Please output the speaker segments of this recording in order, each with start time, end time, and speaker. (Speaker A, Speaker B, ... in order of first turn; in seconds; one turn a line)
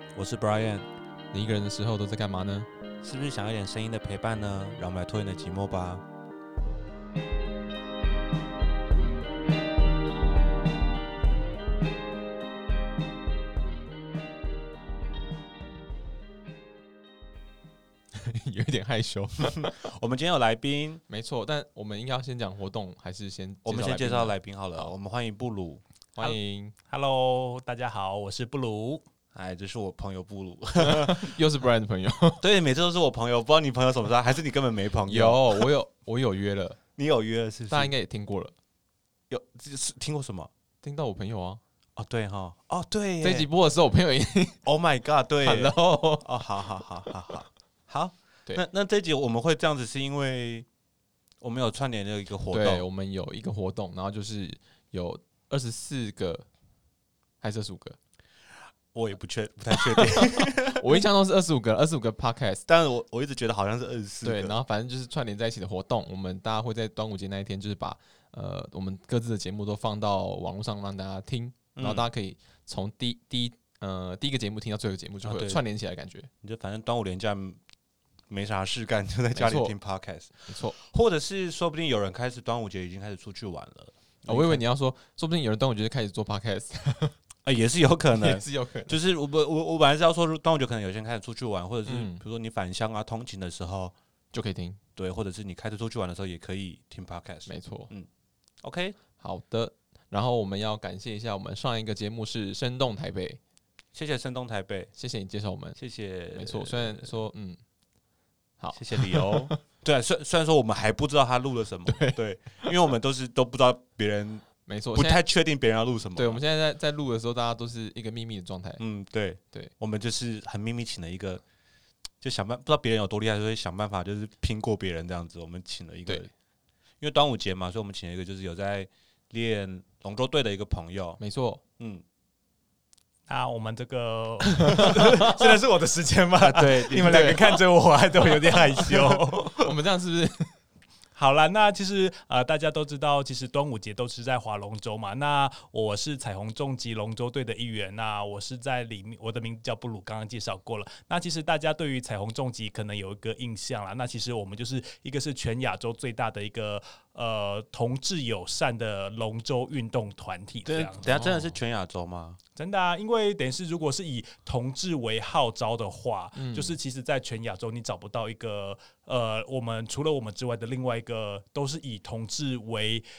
Speaker A: 0.1-0.9
Speaker B: 1.3-2.7
Speaker A: 3.0-6.0
Speaker B: 18.1-19.8
Speaker A: 19.5-21.0
Speaker B: 21.1-24.9
Speaker A: 23.6-25.8
Speaker B: 26.1-26.7
Speaker C: 26.9-29.1
Speaker A: 29.3-31.4
Speaker B: 30.8-32.4
Speaker A: 32.4-35.7
Speaker B: 35.1-36.8
Speaker A: 37.0-37.9
Speaker B: 37.7-38.5
Speaker A: 39.3-40.5
Speaker B: 40.8-41.6
Speaker A: 42.0-43.5
Speaker B: 43.2-44.6
Speaker A: 44.6-50.7
Speaker B: 45.4-46.3
Speaker A: 51.4-52.9
Speaker B: 52.5-56.5
Speaker B: 57.4-58.0
Speaker A: 58.9-61.0
Speaker B: 59.7-62.6
Speaker A: 62.7-64.6
Speaker B: 64.2-76.3
Speaker A: 71.8-72.1
Speaker A: 75.2-75.6
Speaker A: 76.4-77.6
Speaker A: 78.3-84.6
Speaker B: 79.3-79.8
Speaker B: 80.5-80.8
Speaker B: 84.3-87.2
Speaker A: 87.5-94.0
Speaker B: 88.1-89.0
Speaker B: 91.9-92.2
Speaker B: 94.3-94.8
Speaker A: 95.0-98.1
Speaker B: 97.5-97.9
Speaker A: 98.6-99.0
Speaker B: 99.2-103.4
Speaker A: 103.9-104.9
Speaker B: 105.0-105.8
Speaker A: 105.8-107.2
Speaker B: 106.3-107.6
Speaker B: 108.6-109.6
Speaker A: 108.8-116.4
Speaker B: 111.9-112.7
Speaker B: 114.7-115.2
Speaker B: 116.2-118.8
Speaker A: 118.8-121.4
Speaker A: 122.2-126.3
Speaker A: 127.0-131.2
Speaker B: 131.2-131.6
Speaker A: 131.8-132.0
Speaker C: 133.3-139.6
Speaker A: 136.4-137.6
Speaker B: 137.0-137.4
Speaker A: 138.8-139.2
Speaker B: 139.5-140.5
Speaker C: 141.2-161.0
Speaker A: 160.7-162.4
Speaker B: 161.1-161.5
Speaker C: 162.6-173.1
Speaker B: 166.3-166.8